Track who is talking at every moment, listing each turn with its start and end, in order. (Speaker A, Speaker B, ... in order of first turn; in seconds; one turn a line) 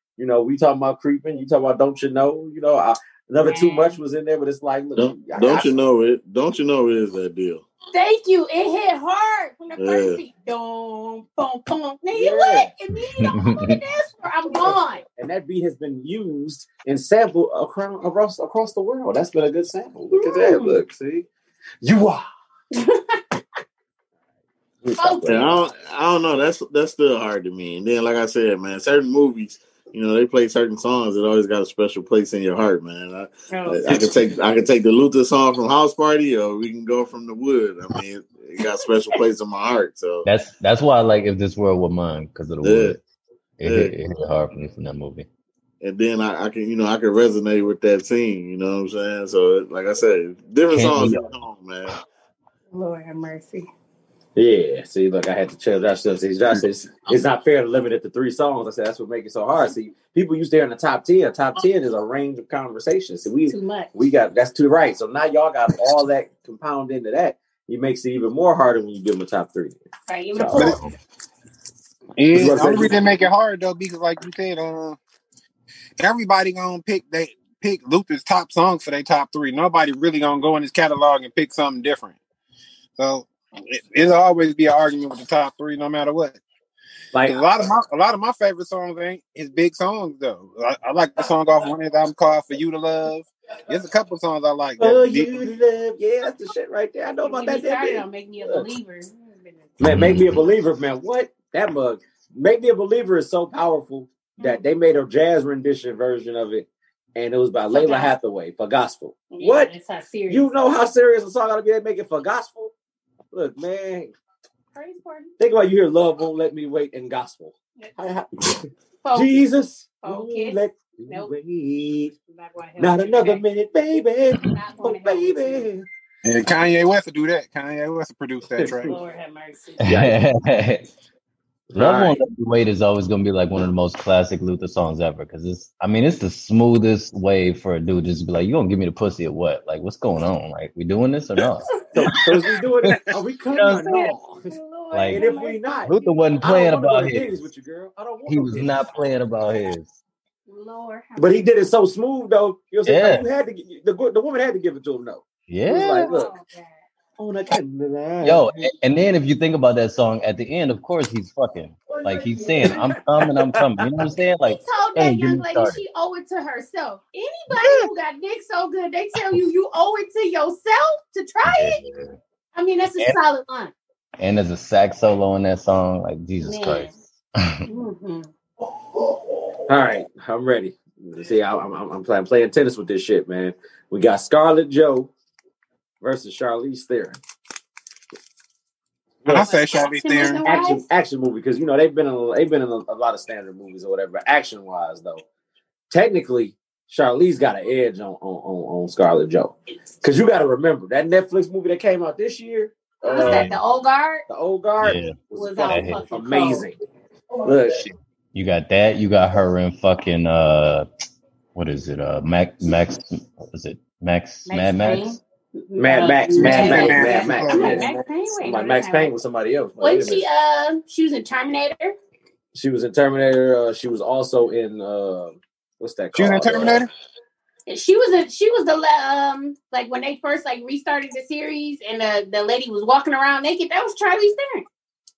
Speaker A: 0.2-5.7
Speaker B: 3.4-4.0
Speaker C: 5.0-7.6
Speaker B: 7.9-15.0
Speaker C: 9.8-10.2
Speaker A: 12.1-12.7
Speaker D: 13.2-13.8
Speaker A: 14.5-21.3
Speaker B: 20.1-20.8
Speaker A: 21.8-22.2
Speaker B: 22.7-23.4
Speaker A: 24.8-25.5
Speaker B: 24.9-25.6
Speaker C: 25.2-40.3
Speaker B: 33.5-34.0
Speaker D: 40.2-43.0
Speaker C: 42.6-43.0
Speaker D: 43.6-45.3
Speaker C: 43.6-43.9
Speaker C: 45.8-52.0
Speaker D: 50.7-51.3
Speaker B: 52.7-53.7
Speaker A: 54.4-69.8
Speaker B: 63.5-63.9
Speaker B: 70.1-70.8
Speaker A: 70.3-70.7
Speaker D: 70.6-70.9
Speaker E: 72.2-75.0
Speaker A: 72.3-73.0
Speaker E: 76.0-82.2
Speaker E: 83.0-86.4
Speaker A: 87.1-87.4
Speaker E: 87.3-95.4
Speaker A: 94.8-98.6
Speaker B: 97.2-99.7
Speaker D: 99.8-100.4
Speaker A: 99.8-109.7
Speaker B: 104.4-104.6
Speaker B: 107.7-108.1
Speaker B: 109.3-110.5
Speaker A: 110.3-112.7
Speaker A: 113.3-114.1
Speaker B: 114.7-115.3
Speaker A: 115.4-122.1
Speaker B: 119.0-119.4
Speaker B: 120.0-121.3
Speaker B: 122.2-123.4
Speaker A: 122.8-125.8
Speaker B: 124.4-125.7
Speaker E: 126.2-129.0
Speaker A: 128.6-128.9
Speaker B: 128.8-130.0
Speaker D: 129.8-130.9
Speaker A: 129.8-130.1
Speaker A: 131.7-132.2
Speaker D: 131.7-141.8
Speaker A: 141.9-144.5
Speaker D: 143.5-144.1
Speaker B: 143.8-146.7
Speaker D: 144.9-145.2
Speaker A: 145.1-148.8
Speaker D: 145.8-147.4
Speaker D: 148.3-149.9
Speaker B: 150.5-151.5
Speaker A: 151.2-156.3
Speaker D: 152.8-153.2
Speaker D: 155.5-156.1
Speaker B: 155.9-156.8
Speaker A: 157.2-158.6
Speaker D: 158.2-165.8
Speaker B: 162.0-162.7
Speaker A: 162.6-163.6
Speaker B: 164.4-171.8
Speaker D: 171.4-172.2
Speaker B: 172.5-173.7
Speaker D: 174.2-177.6
Speaker B: 176.4-177.0
Speaker B: 177.7-178.3
Speaker A: 179.7-185.1
Speaker A: 186.0-187.2
Speaker E: 189.3-190.4
Speaker B: 189.8-190.8
Speaker A: 190.4-195.2
Speaker A: 195.9-203.5
Speaker B: 203.0-204.2
Speaker D: 203.2-203.6
Speaker A: 204.3-206.8
Speaker D: 204.8-205.2
Speaker B: 205.3-206.7
Speaker D: 205.7-206.1
Speaker A: 207.4-207.8
Speaker D: 207.8-210.9
Speaker D: 211.5-215.2
Speaker B: 214.5-219.1
Speaker A: 215.8-217.8
Speaker E: 216.4-218.0
Speaker D: 216.5-216.9
Speaker A: 218.4-220.2
Speaker B: 219.8-221.9
Speaker A: 222.5-226.8
Speaker E: 226.1-226.9
Speaker B: 227.7-234.7